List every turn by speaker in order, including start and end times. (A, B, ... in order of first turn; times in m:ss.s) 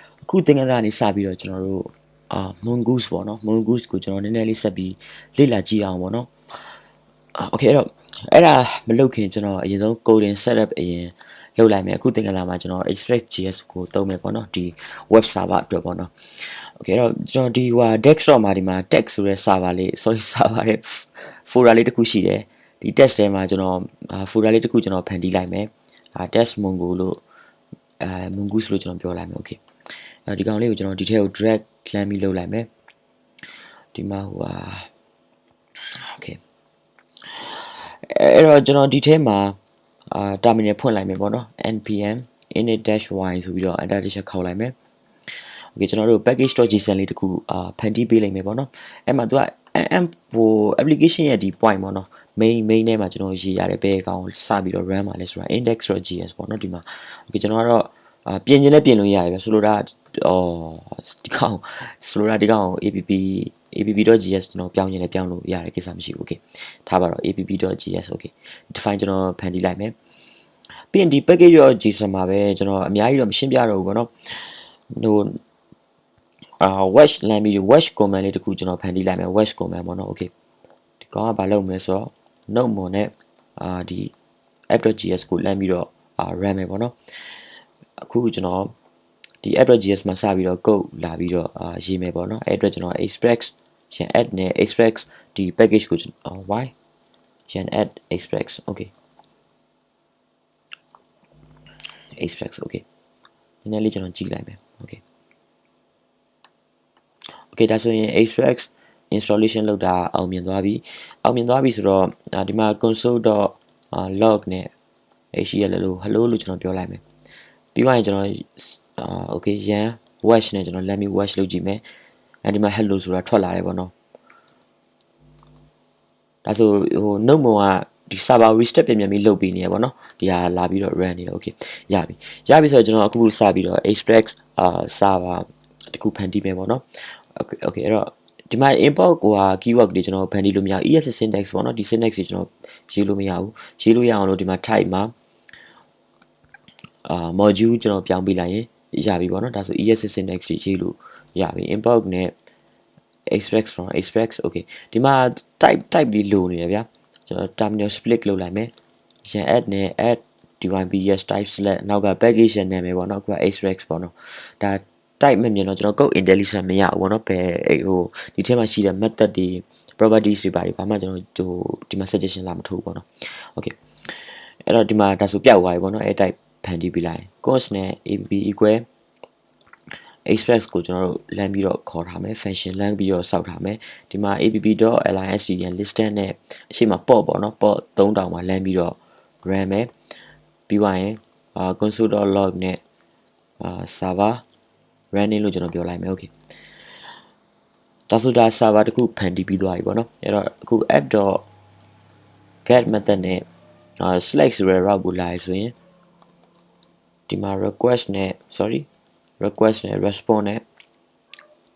0:00.2-0:06.7 A
0:07.3-0:27.2 A
0:28.0-0:29.6 A
0:30.3-0:32.7 A
0:33.9-0:34.9 A
0:36.0-0:36.4 A
0:37.3-0:39.6 A
0:40.1-0:44.7 A
0:45.3-1:09.9 A
1:10.9-1:15.4 A
1:16.6-1:20.3 A
1:21.0-1:24.1 A
1:24.7-1:27.4 A
1:28.0-1:28.7 A
1:29.4-1:36.7 A
1:37.5-1:38.9 A
1:42.2-1:42.8 A
1:43.6-1:45.0 A
1:47.5-1:54.7 A
1:55.3-1:57.0 A
1:57.7-2:01.8 A
2:02.4-2:03.9 A
2:06.4-2:25.1 A
2:27.0-2:32.3 A
2:33.3-2:38.7 A
2:39.2-2:58.8 A
3:00.2-3:09.9 A
3:10.7-3:12.8 A
3:13.6-3:14.4 A
3:15.1-3:16.3 A
3:18.1-3:21.4 A
3:22.6-3:23.4 A
3:24.0-3:25.7 A
3:27.3-3:28.9 A
3:29.4-3:30.6 A